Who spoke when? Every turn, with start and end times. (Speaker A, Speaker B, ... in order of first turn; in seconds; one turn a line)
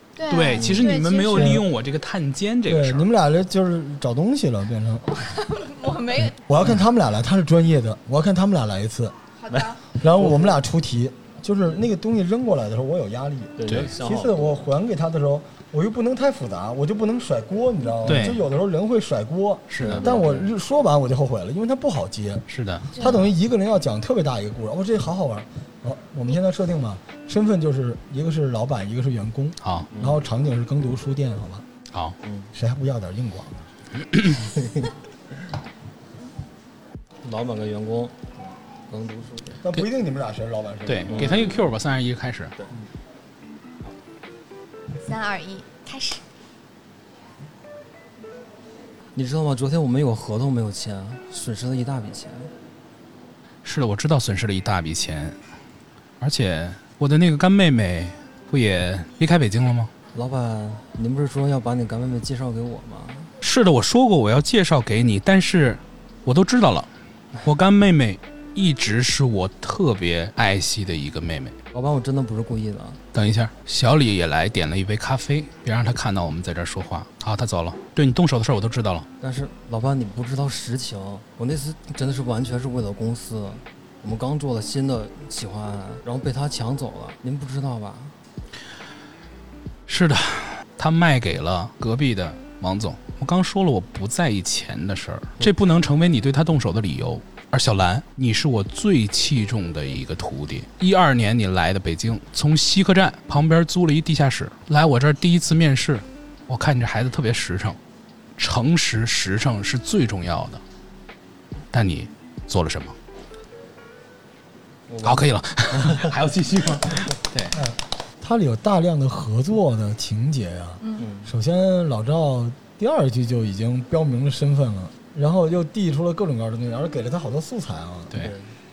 Speaker A: 0.2-1.6
Speaker B: 0.3-3.1
Speaker C: 0.6-0.9
Speaker D: 1.3-1.7
Speaker D: 2.7-5.1
Speaker A: 5.1-6.4
Speaker D: 6.4-9.2
Speaker A: 9.4-9.8
Speaker C: 9.5-10.6
Speaker D: 10.0-31.6
Speaker C: 13.6-14.6
Speaker B: 13.7-13.9
Speaker C: 18.1-18.4
Speaker B: 18.1-18.4
Speaker B: 19.7-20.1
Speaker C: 19.8-20.5
Speaker B: 22.5-22.9
Speaker A: 22.9-23.3
Speaker B: 29.6-29.9
Speaker C: 29.9-30.2
Speaker C: 32.2-32.5
Speaker D: 32.5-33.7
Speaker B: 34.0-34.4
Speaker C: 34.6-34.9
Speaker C: 37.2-38.3
Speaker C: 38.9-39.6
Speaker D: 39.6-41.6
Speaker B: 40.9-42.5
Speaker C: 41.1-41.6
Speaker A: 45.0-46.2
Speaker C: 49.1-52.5
Speaker B: 53.6-55.4
Speaker B: 56.2-59.9
Speaker C: 60.1-63.3
Speaker B: 63.4-71.5
Speaker C: 71.7-73.0
Speaker B: 73.1-79.1
Speaker C: 79.2-88.2
Speaker B: 89.9-107.8
Speaker B: 108.4-110.6
Speaker B: 111.7-113.0
Speaker C: 114.9-115.3
Speaker B: 115.0-117.6
Speaker D: 117.5-128.1
Speaker A: 120.8-121.1
Speaker C: 121.0-121.3
Speaker C: 128.1-128.6